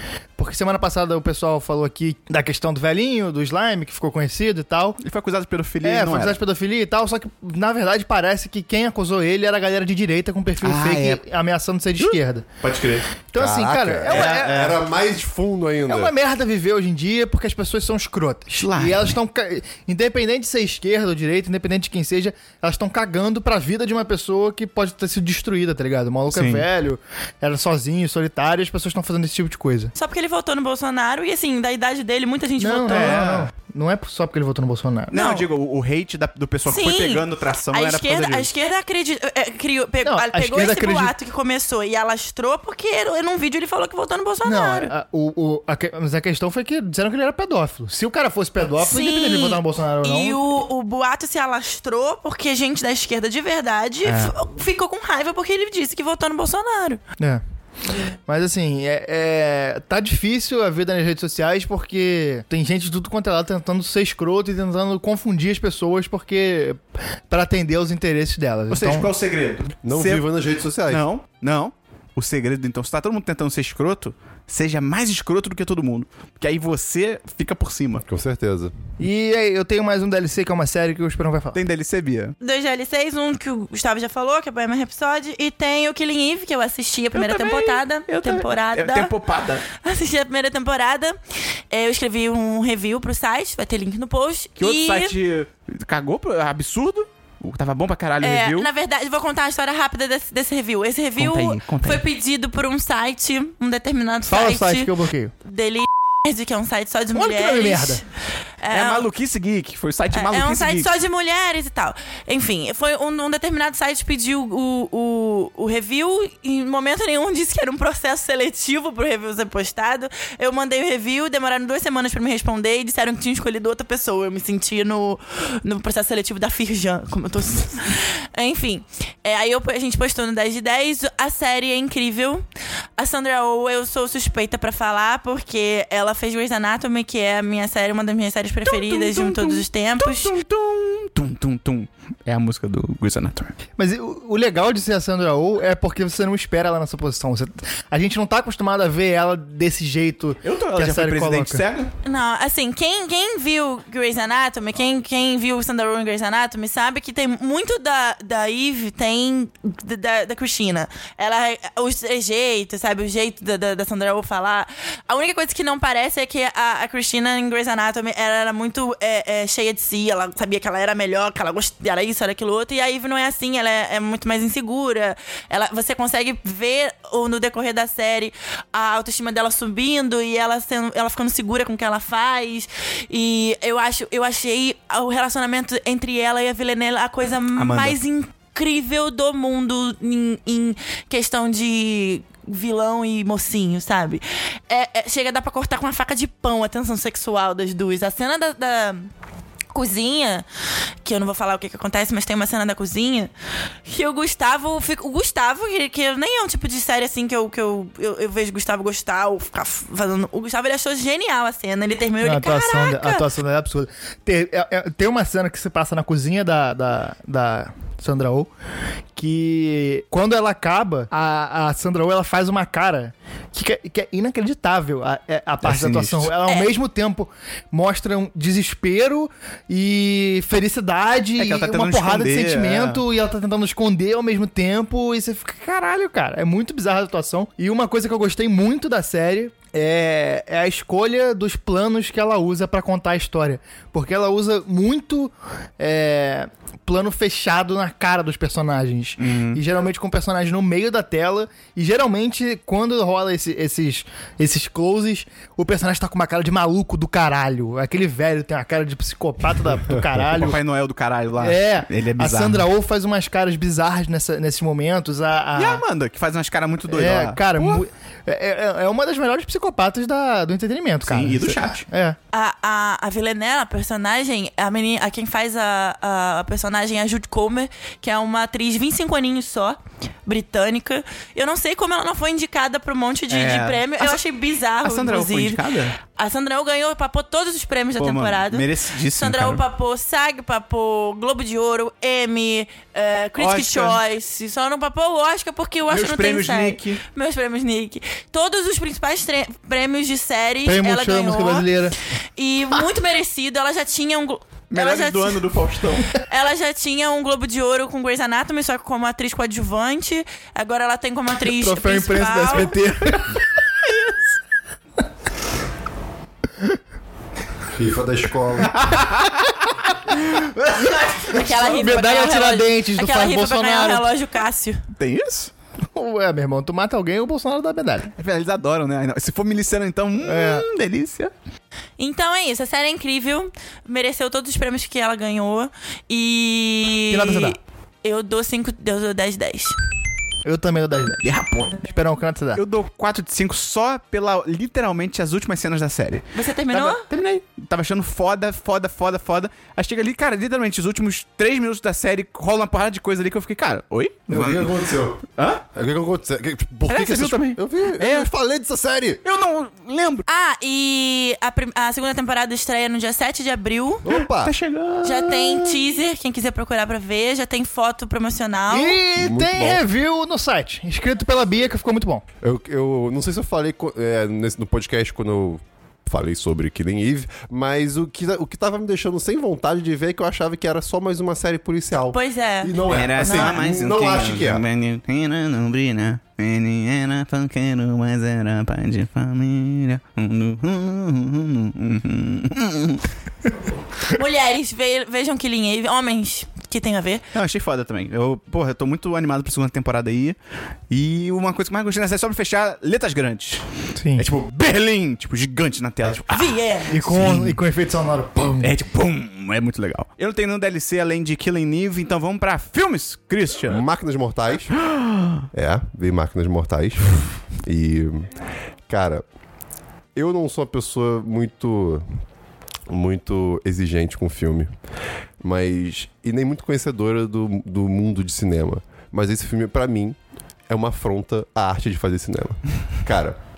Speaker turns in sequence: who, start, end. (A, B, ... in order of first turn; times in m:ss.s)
0:00.4-0:05.0 A
0:05.0-0:06.4 B
0:05.8-0:12.4 A
0:10.6-0:11.2 B
0:12.0-0:13.1 B
0:13.3-0:14.8 A
0:13.4-0:16.1 C
0:14.1-0:14.8 B
0:15.9-0:29.9 A
0:18.6-0:19.2 B
0:26.3-0:26.7 B
0:30.0-0:33.2 D
0:32.6-0:35.2 A
0:32.9-0:33.5 B
0:35.1-0:38.5 B
0:35.1-0:35.5 D
0:36.7-0:44.9 D
0:40.0-0:41.1 A
0:44.4-0:50.4 A
0:48.8-0:57.0 D
0:54.0-0:54.3 A
0:58.3-1:09.1 A
1:08.7-1:10.2 B
1:09.8-1:11.0 C
1:10.9-1:18.0 B
1:18.0-1:18.7 C
1:19.0-1:21.6 A
1:21.5-1:22.4 B
1:22.4-1:29.1 D
1:27.1-1:29.6 B
1:29.7-1:31.2 D
1:31.7-1:35.1 D
1:34.6-1:38.7 B
1:38.2-1:44.9 D
1:41.2-1:42.0 B
1:44.3-1:45.3 A
1:45.4-1:48.0 D
1:47.1-1:48.0 A
1:48.6-1:49.1 D
1:48.7-1:50.9 B
1:50.1-2:12.4 D
2:13.0-2:20.3 D
2:18.6-2:23.5 B
2:23.8-2:31.6 A
2:30.4-2:31.9 B
2:32.0-3:19.1 D
3:07.6-3:08.0 B
3:19.7-3:20.5 D
3:21.0-3:23.3 D
3:23.8-3:33.2 D
3:32.2-3:38.5 A
3:39.2-4:20.6 A
3:45.6-3:46.3 B
3:51.4-3:53.0 B
4:09.2-4:09.6 B
4:20.3-4:22.7 B
4:21.4-4:25.8 A
4:25.6-4:27.8 B
4:26.9-4:32.2 A
4:31.0-4:31.9 B
4:32.3-5:01.7 D
4:43.3-4:44.2 B
4:44.8-4:46.0 B
4:48.0-4:49.6 B
4:53.4-4:54.0 B
4:55.9-4:57.0 B
5:00.6-5:02.0 A
5:02.4-5:05.4 D
5:04.7-5:06.2 B
5:06.2-5:12.7 D
5:11.5-5:13.4 A
5:12.8-5:13.2 B
5:13.8-5:14.2 B
5:17.7-5:18.9 C
5:18.7-5:21.9 B
5:21.3-5:24.9 D
5:21.3-5:24.1 A
5:25.0-5:25.5 B
5:26.0-5:28.1 A
5:28.2-5:31.3 B
5:30.2-5:30.7 A
5:32.0-5:39.8 D
5:37.1-5:37.6 A
5:40.4-5:42.6 A
5:41.2-5:41.8 B
5:42.6-5:54.8 B
5:46.3-5:47.1 D
5:46.7-5:47.2 A
5:54.3-5:59.2 C
5:55.4-5:55.6 B
5:56.9-5:58.3 B
5:59.2-6:00.3 B
6:00.3-6:04.0 D
6:04.0-6:04.5 C
6:04.1-6:05.8 B
6:05.0-6:09.0 D
6:08.7-6:12.2 A
6:09.2-6:09.8 C
6:12.4-6:24.6 C
6:22.1-6:23.6 D
6:22.9-6:33.1 B
6:34.1-6:37.2 D
6:37.3-6:40.4 B
6:40.9-6:43.6 B
6:44.0-6:44.3 A
6:44.2-6:47.6 B
6:46.3-6:47.0 D
6:46.9-6:48.7 A
6:48.6-6:53.8 B
6:53.7-6:54.8 C
6:54.8-6:55.4 B
6:55.5-6:58.3 C
6:58.9-6:59.2 C
7:00.2-7:02.0 C
7:02.9-7:04.7 C
7:05.4-7:10.2 C
7:10.7-7:13.4 C